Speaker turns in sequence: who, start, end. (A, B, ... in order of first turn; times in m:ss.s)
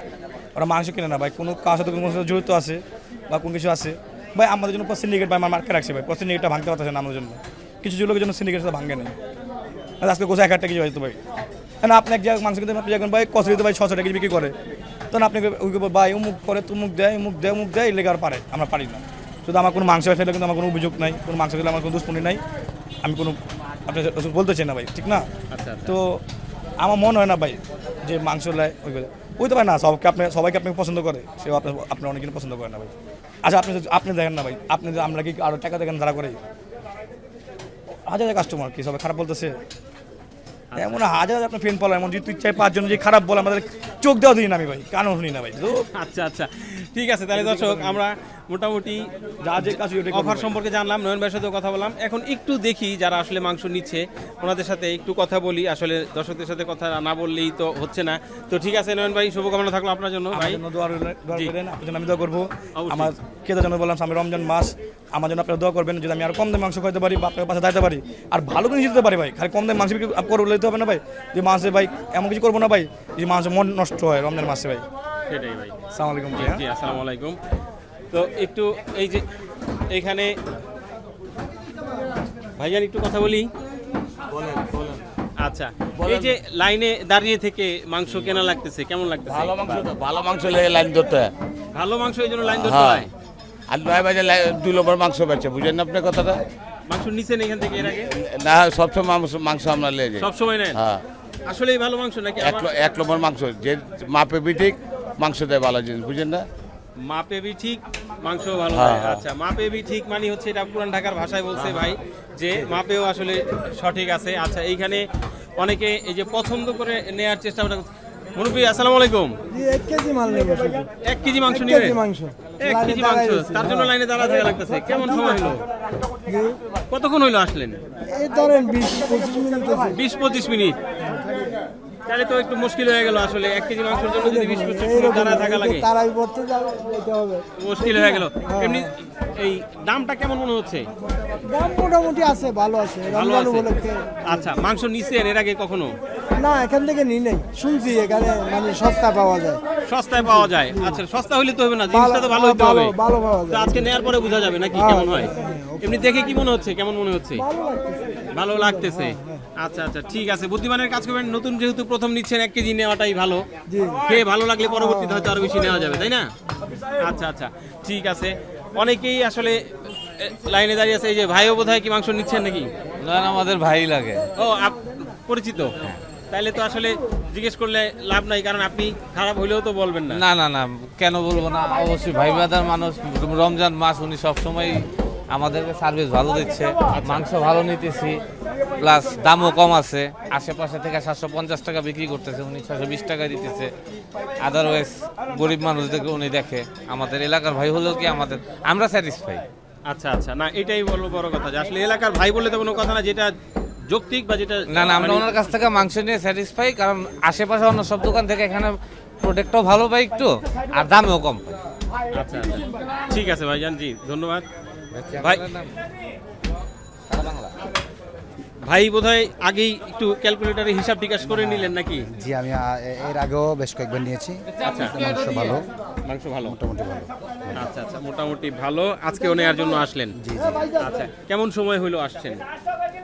0:00.6-0:09.1 A
0:10.0-0:11.2 A
0:11.8-0:14.5 A
0:15.1-0:22.4 A
0:23.0-0:25.2 A
0:25.5-0:25.9 B
0:25.8-0:26.2 A
0:26.8-0:32.9 A
0:33.4-0:36.4 A
0:38.1-0:39.5 A
0:40.7-0:41.0 B
0:40.8-0:45.8 A
0:46.0-0:49.0 B
0:47.3-0:48.0 A
0:49.4-0:50.6 A
0:49.6-1:00.6 B
1:00.3-1:14.8 A
1:02.8-1:03.1 B
1:15.3-1:15.7 B
1:15.9-1:16.6 A
1:16.3-1:17.4 B
1:18.1-1:19.2 B
1:19.9-1:20.3 B
1:22.6-1:23.5 B
1:24.3-1:25.0 C
1:25.4-1:29.8 B
1:26.0-1:26.3 C
1:29.3-1:31.3 C
1:31.7-1:33.1 B
1:32.5-1:33.1 C
1:33.7-1:36.4 C
1:36.9-1:38.1 B
1:37.8-1:41.0 C
1:40.2-1:40.8 B
1:41.5-1:42.7 B
1:42.4-1:46.5 C
1:47.0-1:55.0 B
1:48.7-1:49.2 C
1:51.6-1:51.8 C
1:55.6-1:59.3 B
1:59.5-2:00.9 D
2:01.0-2:02.0 B
2:01.5-2:03.9 D
2:02.6-2:05.6 B
2:06.3-2:06.6 D
2:06.9-2:07.8 B
2:08.1-2:10.0 D
2:09.9-2:10.8 B
2:11.0-2:11.3 D
2:12.1-2:15.9 B
2:14.1-2:18.9 D
2:17.6-2:20.9 B
2:21.5-2:24.5 D
2:23.1-2:23.7 B
2:24.2-2:25.9 B
2:26.4-2:29.6 D
2:29.9-2:32.9 B
2:30.2-2:31.0 D
2:31.9-2:34.0 D
2:33.5-2:37.4 B
2:34.7-2:36.0 D
2:37.4-2:39.4 D
2:38.3-2:43.4 B
2:43.7-2:44.1 D
2:44.0-2:46.3 B
2:44.7-2:45.4 D
2:47.0-2:49.6 B
2:50.2-2:52.7 B
2:53.0-2:54.2 E
2:54.4-2:55.7 B
2:56.3-3:00.2 B
3:00.1-3:04.8 E
3:05.3-3:08.2 E
3:06.9-3:07.2 B
3:08.8-3:13.7 E
3:14.4-3:19.4 E
3:19.9-3:23.3 B
3:23.9-3:25.3 B
3:24.7-3:31.6 E
3:32.1-3:34.4 B
3:34.9-3:35.3 F
3:35.2-3:35.4 B
3:35.2-3:35.7 E
3:37.1-3:37.5 E
3:38.7-3:42.0 B
3:41.4-3:45.6 F
3:44.6-3:45.0 B
3:46.1-3:46.6 B
3:46.4-3:47.6 F
3:47.5-3:50.1 B
3:50.2-3:50.6 F
3:50.8-3:52.4 B